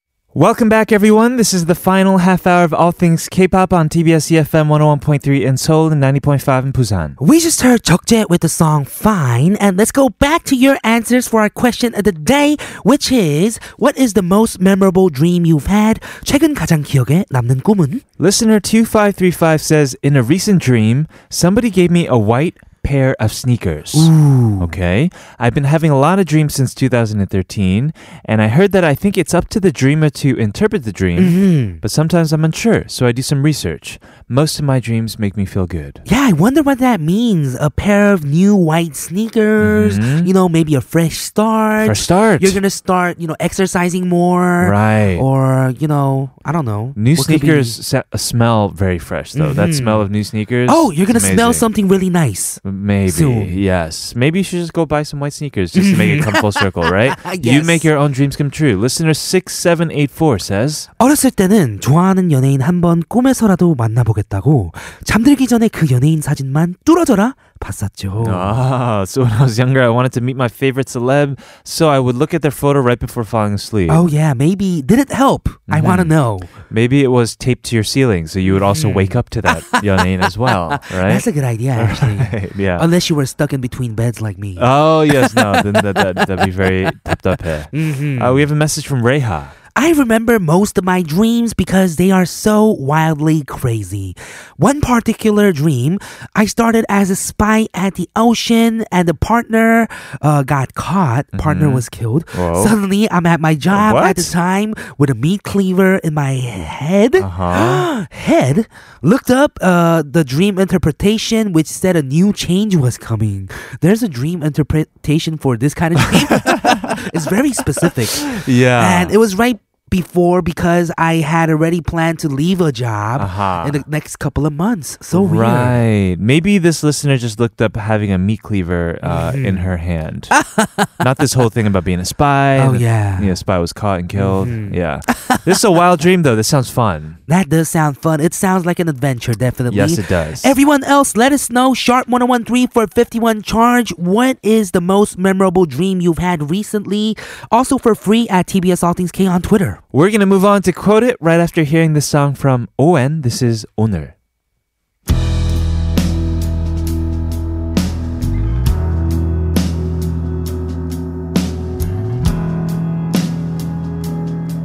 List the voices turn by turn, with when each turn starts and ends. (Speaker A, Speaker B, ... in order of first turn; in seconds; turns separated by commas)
Speaker A: 0.3-7.2, Speaker B: 7.2-18.0, Speaker A: 18.2-36.0, Speaker B: 23.9-24.8, Speaker B: 31.2-31.8, Speaker B: 36.1-47.8, Speaker A: 39.6-40.3, Speaker A: 41.8-42.6, Speaker A: 44.6-45.2, Speaker A: 47.0-51.7, Speaker B: 49.4-50.0, Speaker B: 50.7-53.5, Speaker A: 52.6-60.9, Speaker B: 55.8-57.9, Speaker B: 61.0-68.5, Speaker A: 68.2-74.0, Speaker B: 73.9-76.5, Speaker A: 75.7-76.2, Speaker A: 76.7-82.9, Speaker B: 78.5-79.8, Speaker B: 80.7-86.3, Speaker A: 84.6-89.5, Speaker B: 87.7-88.5, Speaker B: 89.8-125.8, Speaker A: 101.3-102.8, Speaker A: 103.7-104.3, Speaker A: 107.2-107.9, Speaker A: 116.0-117.1, Speaker A: 117.8-119.2, Speaker A: 123.2-123.8, Speaker A: 125.1-130.4, Speaker B: 129.0-129.7, Speaker B: 130.3-130.9, Speaker A: 131.0-137.2, Speaker B: 132.6-133.4, Speaker B: 134.2-135.4, Speaker B: 137.3-149.8, Speaker A: 139.7-140.6, Speaker A: 149.9-154.1